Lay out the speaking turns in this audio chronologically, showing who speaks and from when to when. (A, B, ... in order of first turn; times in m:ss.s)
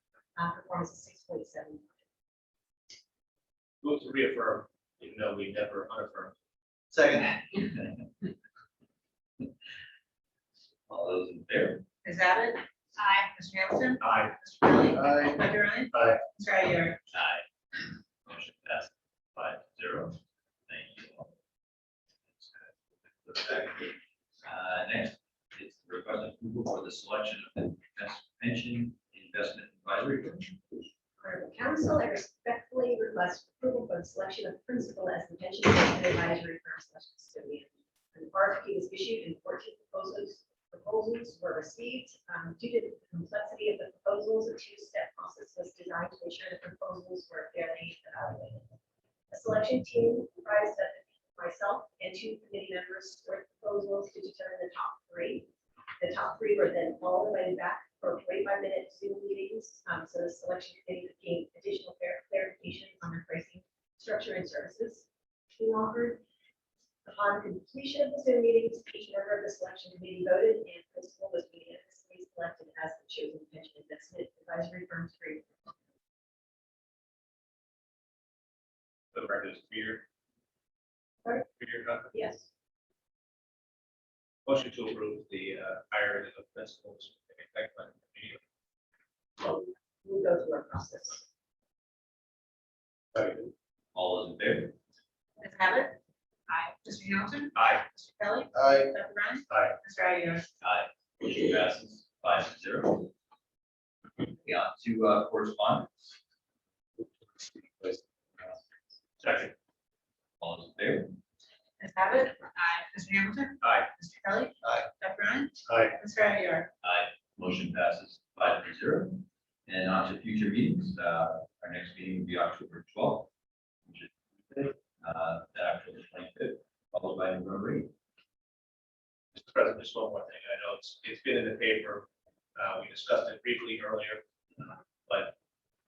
0:00.4-0:01.9 A
0:03.8-0:06.3 B
0:10.9-0:11.8 C
0:12.0-0:17.0 D
0:14.0-0:14.3 B
0:14.9-0:16.2 B
0:17.1-0:17.4 C
0:18.2-0:21.3 C
0:22.4-0:30.6 C
0:31.2-0:48.7 A
0:49.3-0:55.5 A
0:56.0-1:06.2 A
1:07.0-1:15.4 A
1:19.1-1:20.0 B
1:21.6-1:22.1 B
1:22.1-1:22.4 A
1:24.4-1:28.4 B
1:29.4-1:31.2 A
1:33.1-1:33.5 B
1:33.9-1:34.7 C
1:35.4-1:35.9 D
1:36.5-1:40.4 D
1:37.6-1:37.8 B
1:38.5-1:38.9 B
1:39.5-1:39.8 B
1:40.6-1:43.1 C
1:44.4-1:46.0 C
1:49.2-1:49.5 B
1:50.4-1:51.2 C
1:51.8-1:56.7 D
1:53.6-1:53.9 B
1:55.7-1:55.9 B
1:56.8-2:03.3 C
2:03.9-2:07.9 C
2:09.3-2:14.2 B
2:15.0-2:15.3 B